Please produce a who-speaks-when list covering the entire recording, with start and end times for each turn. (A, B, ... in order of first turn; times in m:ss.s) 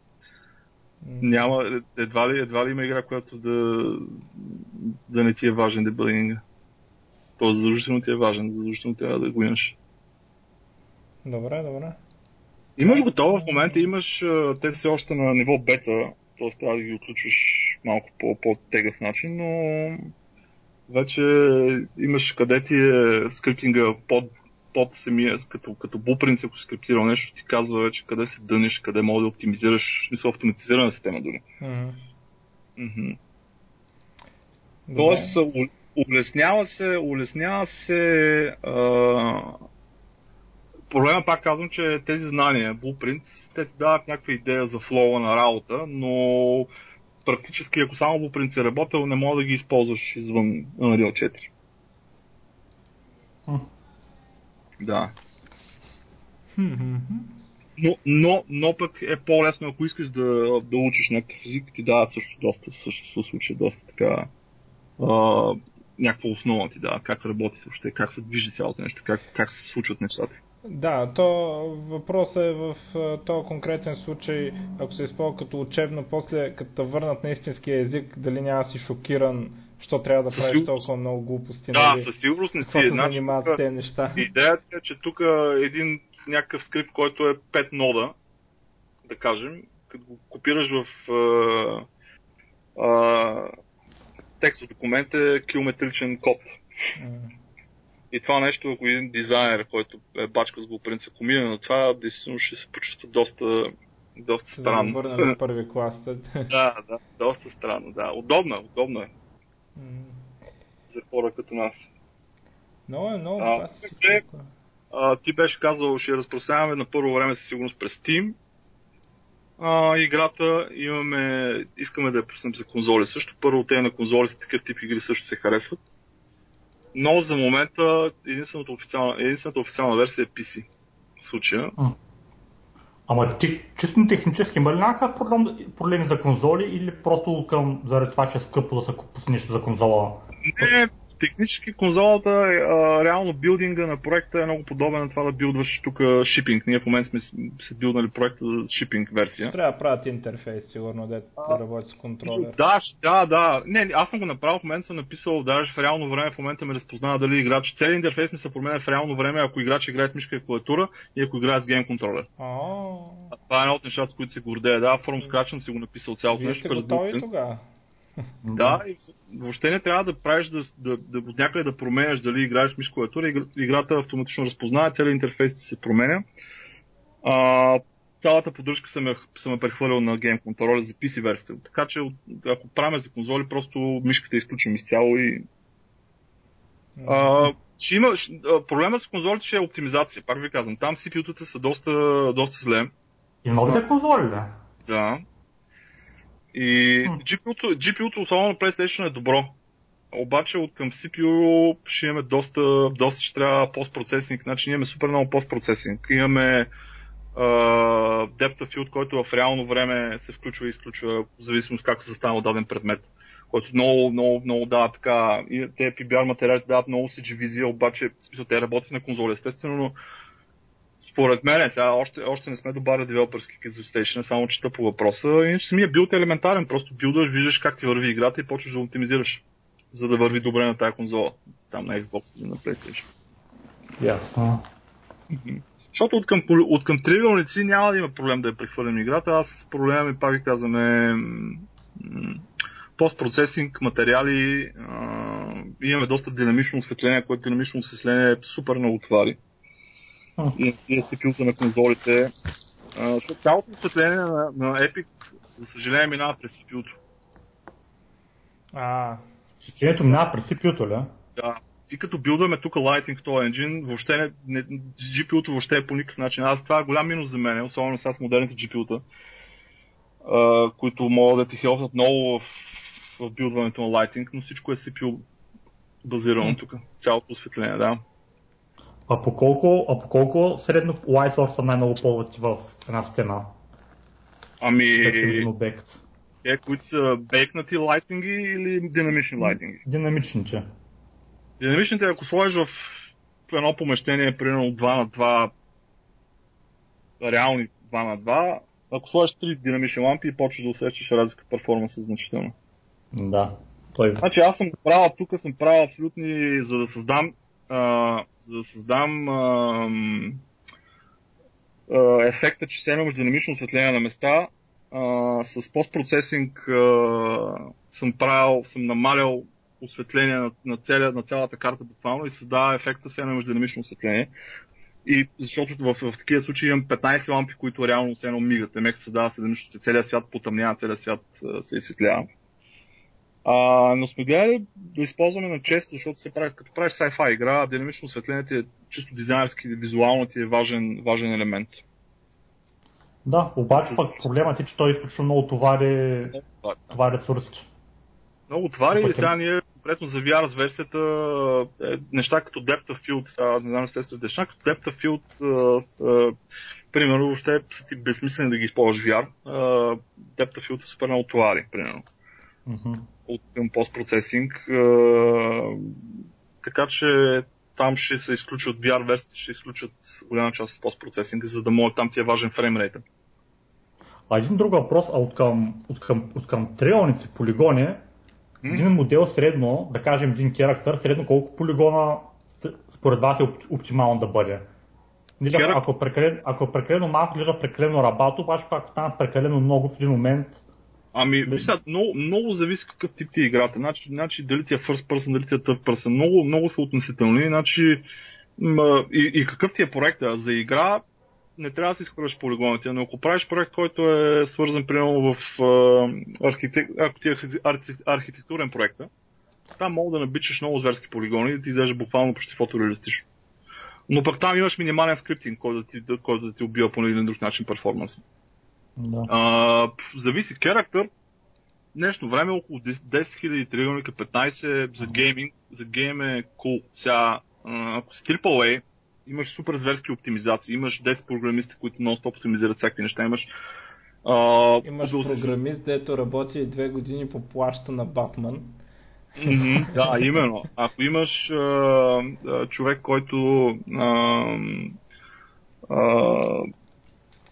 0:01.0-0:01.5 A
0:01.2-0:06.4 B
0:07.4-0:09.8 B
0:11.2-0:12.0 A
0:12.8-0:20.1 B
0:12.8-0:13.9 A
0:20.9-0:31.4 B
0:31.6-0:32.0 A
0:32.8-0:33.2 B
0:34.9-0:35.4 A
0:35.0-0:39.6 B
0:40.9-0:46.7 B
0:47.2-0:51.5 B
0:54.8-0:55.1 B
0:56.6-0:57.3 A
0:57.8-1:04.3 B
1:05.0-1:10.4 B
1:10.6-1:22.1 A
1:20.3-1:20.8 B
1:21.7-1:23.6 B
1:22.6-1:24.2 A
1:24.2-1:28.1 B
1:29.0-1:31.9 B
1:32.8-1:33.5 B
1:34.4-1:36.6 B
1:37.0-1:37.3 A
1:38.1-1:45.3 B
1:44.5-1:46.5 A
1:46.5-1:49.1 B
1:49.8-1:50.2 A
1:50.9-1:51.9 B
1:52.9-1:54.5 A
1:53.4-1:54.2 B
1:54.9-1:58.4 B
1:59.6-2:05.8 B
2:06.9-2:10.7 B
2:11.2-2:11.7 B
2:13.1-2:20.7 C
2:20.5-2:29.5 B
2:29.5-2:32.6 A
2:32.2-2:42.3 B
2:42.4-2:43.3 A
2:43.3-2:47.2 B
2:46.3-2:47.6 A
2:48.4-2:48.8 C
2:48.6-2:56.2 B
2:57.2-3:05.4 B
3:07.0-3:07.5 A
3:07.0-3:12.9 B
3:13.4-3:14.6 C
3:14.9-3:15.2 B
3:16.5-3:19.6 B
3:20.1-3:26.7 B
3:27.3-3:40.0 B
3:41.0-3:53.1 B
3:54.0-3:54.6 C
3:55.3-4:02.4 B
4:03.0-4:09.4 B
4:10.6-4:12.3 B
4:12.9-4:17.0 B
4:18.7-4:19.2 A
4:19.6-4:21.1 C
4:21.4-4:29.0 B
4:30.2-4:35.2 B
4:36.0-4:38.0 B
4:39.1-4:43.6 C
4:44.6-4:45.5 B
4:45.0-4:46.0 C
4:46.4-4:49.8 B
4:49.4-4:50.6 C
4:51.6-4:55.5 B
4:57.2-5:02.5 B
5:03.1-5:04.2 C
5:04.2-5:10.4 B
5:11.9-5:24.3 B
5:25.0-5:32.3 B
5:33.4-5:41.8 B
5:43.2-5:46.4 C
5:43.8-5:44.1 B
5:46.3-5:46.9 B
5:46.9-5:47.7 C
5:48.5-5:56.3 B
5:48.9-5:49.3 C
5:56.9-6:02.0 B
6:02.6-6:03.1 C
6:03.3-6:06.0 B
6:06.6-6:13.0 B
6:14.3-6:18.0 C
6:18.7-6:24.6 C
6:25.4-6:30.6 C
6:25.5-6:25.8 B
6:31.1-6:38.0 B
6:31.5-6:31.7 C
6:38.6-6:41.0 B
6:41.6-6:49.1 B
6:49.8-6:53.3 B
6:54.1-6:58.2 B
6:59.0-6:59.3 C
6:59.3-7:01.1 B
7:01.9-7:13.5 B
7:14.2-7:15.6 B
7:14.8-7:18.7 A
7:19.4-7:25.0 B
7:19.5-7:20.1 A
7:25.9-7:26.7 B